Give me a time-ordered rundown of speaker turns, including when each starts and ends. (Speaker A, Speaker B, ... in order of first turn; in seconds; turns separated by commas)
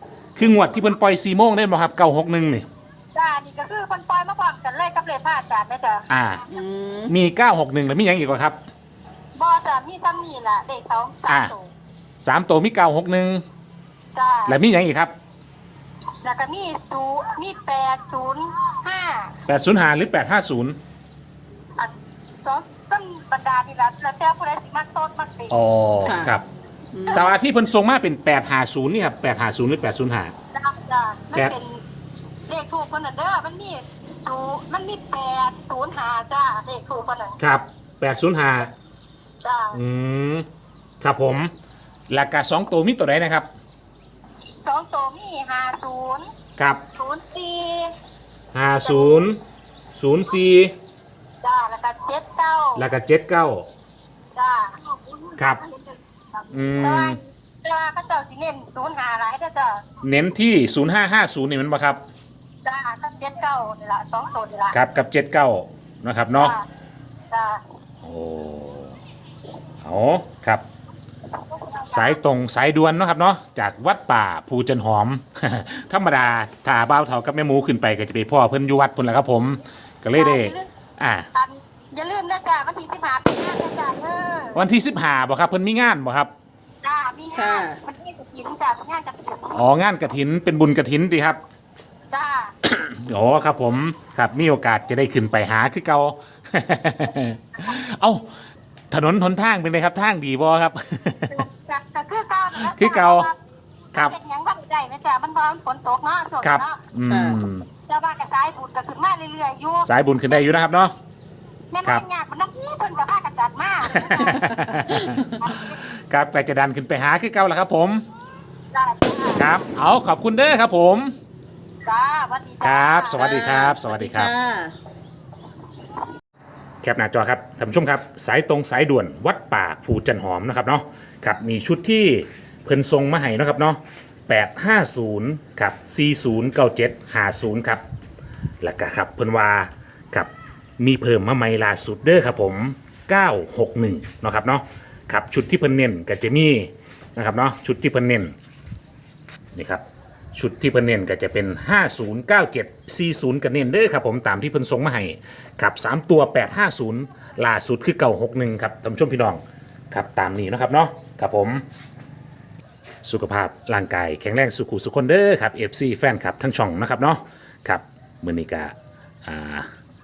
Speaker A: 0.4-2.7, Speaker B: 3.1-6.1, Speaker A: 6.1-6.5, Speaker C: 6.5-7.1, Speaker A: 7.1-8.6, Speaker B: 9.4-11.7, Speaker A: 11.3-11.5, Speaker A: 12.2-13.4, Speaker B: 14.2-14.6, Speaker A: 14.5-15.1, Speaker B: 16.2-19.4, Speaker A: 19.5-20.8, Speaker B: 21.8-25.6, Speaker A: 25.5-26.4, Speaker C: 26.0-26.3, Speaker C: 26.9-27.3, Speaker A: 27.1-30.3, Speaker B: 30.5-31.8, Speaker B: 32.5-37.4, Speaker A: 37.4-38.7, Speaker B: 39.4-39.8, Speaker A: 39.7-40.5, Speaker A: 41.0-41.5, Speaker A: 42.1-43.5, Speaker B: 44.6-46.3, Speaker B: 47.0-48.0, Speaker A: 48.5-49.4, Speaker B: 48.8-49.3, Speaker A: 50.0-50.7, Speaker B: 51.4-52.9, Speaker A: 52.8-53.7, Speaker B: 54.4-56.0, Speaker A: 56.5-57.2, Speaker B: 56.8-59.8, Speaker A: 60.0-62.0, Speaker B: 62.6-64.8, Speaker A: 64.7-66.5, Speaker B: 66.4-66.6, Speaker B: 67.3-67.6, Speaker A: 68.0-69.0, Speaker A: 69.8-70.6, Speaker B: 71.6-72.2, Speaker A: 71.9-81.3, Speaker B: 80.2-80.7, Speaker B: 81.3-84.6, Speaker A: 84.5-86.3, Speaker B: 86.8-89.6, Speaker C: 87.3-87.8, Speaker A: 89.5-91.4, Speaker B: 92.1-92.5, Speaker A: 92.6-98.3, Speaker A: 98.9-101.5, Speaker B: 101.3-103.4, Speaker A: 102.6-103.3, Speaker B: 103.9-106.8, Speaker A: 106.4-107.7, Speaker C: 107.1-107.4, Speaker B: 107.9-110.4, Speaker A: 109.8-110.9, Speaker B: 111.7-114.6, Speaker A: 113.8-118.0, Speaker C: 114.4-115.2, Speaker B: 115.4-115.8, Speaker B: 118.7-119.5, Speaker A: 119.4-121.1, Speaker B: 121.8-123.2, Speaker A: 122.6-124.3, Speaker C: 123.2-124.7, Speaker A: 126.8-137.8, Speaker A: 138.6-148.3, Speaker A: 149.5-149.8, Speaker A: 150.3-161.6, Speaker A: 163.1-168.7, Speaker A: 169.2-169.7